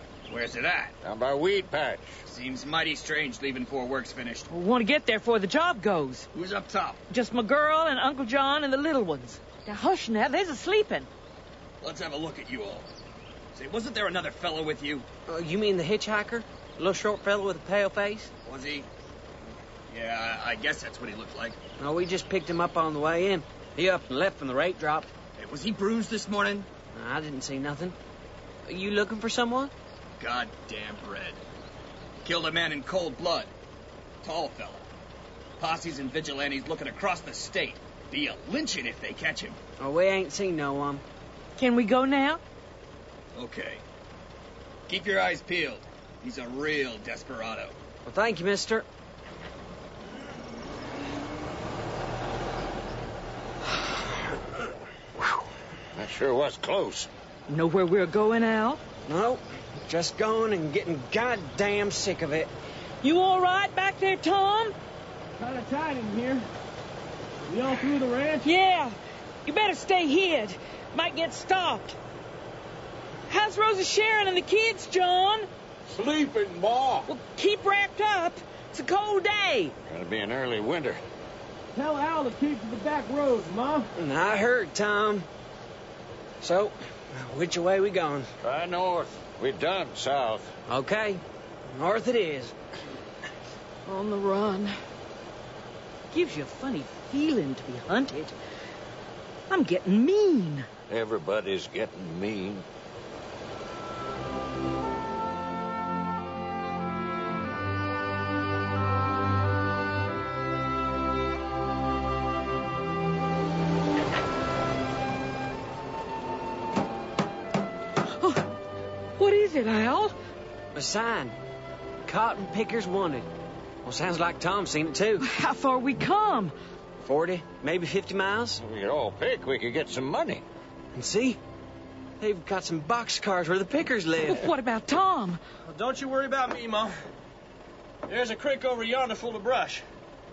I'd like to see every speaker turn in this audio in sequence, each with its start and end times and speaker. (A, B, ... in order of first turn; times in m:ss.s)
0:00.2-0:00.9 A
0:01.0-0:02.2 B
0:02.2-0:04.5 A
0:04.5-0:06.3 C
0:06.3-0:07.0 A
0:07.1-0:11.1 C
0:11.8-0:12.9 A
0:13.5-0:15.0 A
0:15.3-0:18.3 D
0:18.4-0:18.9 A
0:19.9-0:21.6 A
0:21.8-0:25.1 D
0:25.4-0:26.7 A
0:26.9-0:28.0 D
0:28.6-0:29.7 D
0:30.2-0:31.4 A
0:32.2-0:33.5 A
0:34.2-0:34.9 A
0:35.6-0:39.6 A
0:39.8-0:41.0 D
0:41.6-0:42.4 C
0:43.3-0:43.8 A
0:44.9-0:47.8 A
0:48.0-0:48.8 D
0:55.9-0:57.1 B
0:57.5-0:58.8 C
0:59.0-1:02.5 D
1:03.0-1:04.8 C
1:05.4-1:06.4 E
1:07.5-1:08.5 E
1:08.4-1:12.0 C
1:13.3-1:15.5 C
1:15.9-1:17.1 B
1:17.1-1:19.7 C
1:19.8-1:21.0 B
1:21.7-1:23.9 E
1:23.9-1:25.3 D
1:26.4-1:28.3 D
1:28.4-1:30.5 B
1:30.7-1:32.5 D
1:33.8-1:34.8 C
1:36.1-1:38.3 C
1:39.5-1:40.7 C
1:40.9-1:42.6 B
1:58.2-1:58.5 C
1:59.2-2:00.1 C
2:00.7-2:01.4 D
2:02.0-2:03.3 D
2:03.8-2:05.2 D
2:05.2-2:06.5 C
2:07.0-2:08.6 D
2:08.6-2:10.4 B
2:10.9-2:11.4 D
2:12.2-2:14.5 D
2:14.3-2:15.4 C
2:15.6-2:16.9 F
2:18.0-2:19.8 F